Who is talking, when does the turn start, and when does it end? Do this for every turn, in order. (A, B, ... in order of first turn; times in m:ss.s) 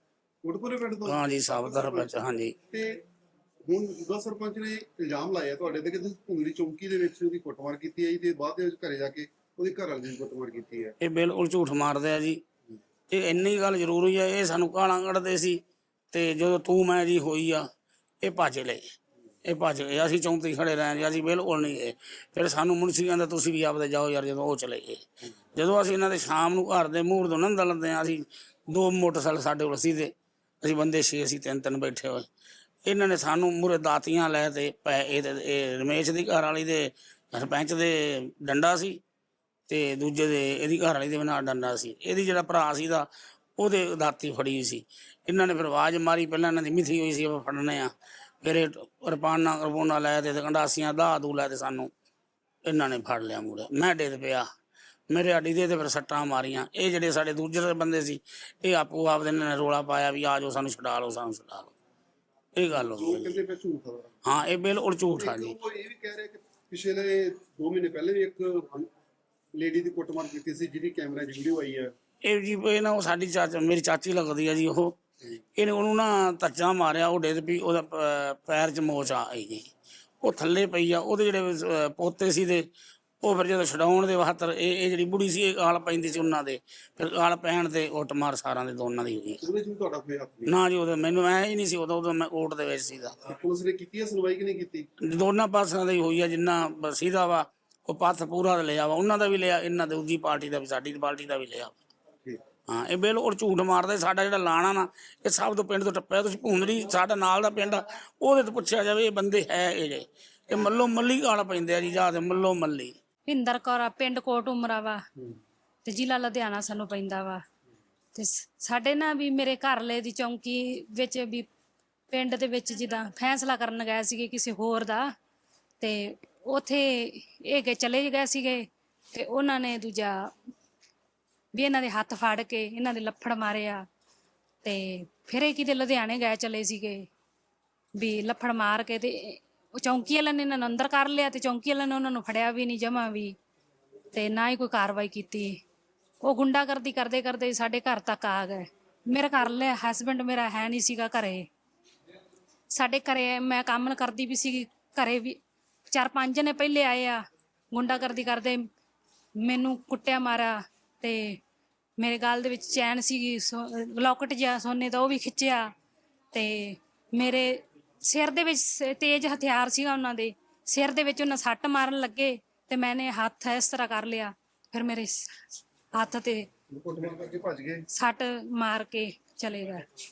0:00.4-0:02.1 A
0:01.0-0:02.5 B
0:02.7-0:03.0 A
0:03.6-0:10.9 A
0:11.0-0:12.4 B
0:13.1-0:17.6 B
0:18.2-0:18.8 B
0:19.4-0:32.2 B
0:32.8-0:39.0 B
0:39.7-0:51.9 B
0:52.6-0:54.5 B
0:55.1-1:01.7 B
1:02.6-1:03.4 B
1:02.8-1:04.1 A
1:04.2-1:05.6 B
1:05.1-1:08.9 A
1:09.5-1:11.9 A
1:12.2-1:14.9 B
1:15.6-1:19.6 B
1:20.2-1:22.6 B
1:23.2-1:29.4 B
1:29.4-1:30.6 A
1:30.4-1:33.3 B
1:33.3-1:34.9 A
1:35.0-1:41.8 B
1:42.7-1:52.9 B
1:53.2-1:55.0 C
1:55.8-1:57.4 C
1:58.1-2:01.5 C
2:02.1-2:05.1 C
2:05.8-2:10.3 C
2:11.5-2:13.8 C
2:14.6-2:17.0 C
2:17.9-2:23.3 C
2:24.1-2:25.5 C
2:26.2-2:31.4 C
2:32.7-2:35.4 C
2:35.9-2:38.6 C
2:39.4-2:41.4 C
2:42.0-2:45.7 C
2:46.3-2:55.3 C
2:55.9-2:56.4 C
2:56.7-2:57.8 A
2:57.9-2:59.8 C